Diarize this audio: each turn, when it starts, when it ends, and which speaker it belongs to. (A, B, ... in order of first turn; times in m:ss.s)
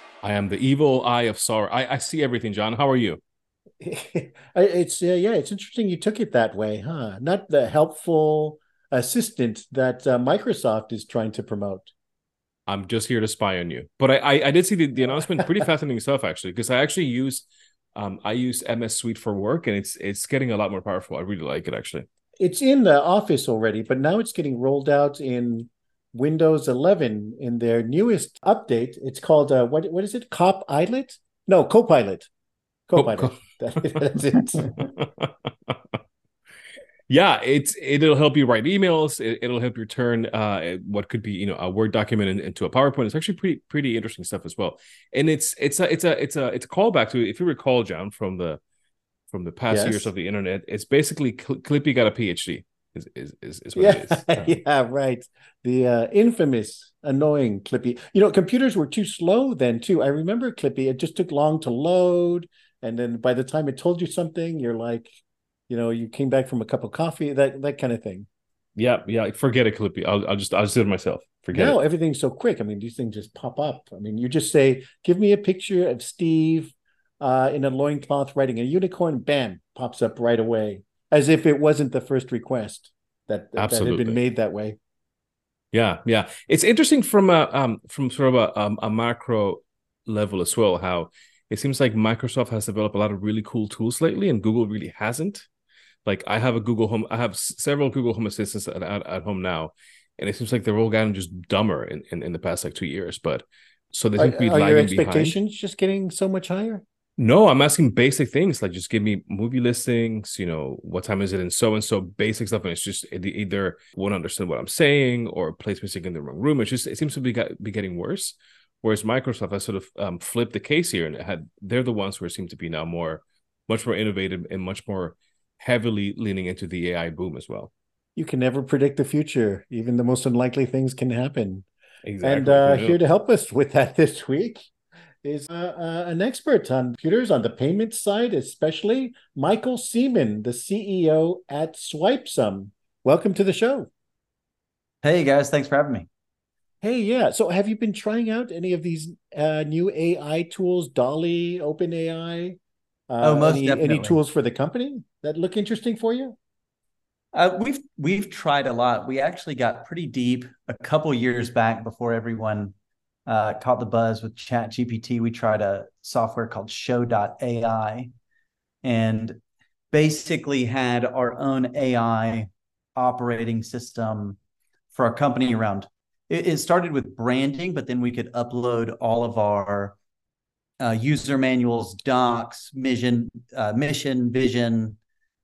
0:00.2-0:03.2 A
0:03.8-0:11.9 B
0:12.7-0:22.1 A
0:22.4-0:32.3 B
0:32.9-0:34.7 B
0:33.0-0:35.8 A
0:37.1-0:48.6 A
0:49.3-0:54.6 A
0:49.7-0:50.1 B
0:53.7-1:05.2 B
1:05.7-1:08.3 B
1:08.8-1:11.8 A
1:11.5-1:24.8 B
1:23.6-1:24.2 A
1:25.7-1:35.5 A
1:36.0-1:45.4 A
1:44.2-1:46.8 B
1:47.2-2:07.7 A
2:08.2-2:11.6 B
2:12.0-2:13.0 A
2:12.2-2:14.7 B
2:15.2-2:23.9 B
2:25.0-2:26.1 C
2:26.8-2:32.6 B
2:33.1-2:36.3 B
2:33.2-2:34.2 C
2:37.3-2:42.7 C
2:43.3-2:48.1 C
2:48.8-2:49.4 C
2:49.9-2:54.4 C
2:54.9-3:00.0 C
3:00.8-3:05.0 C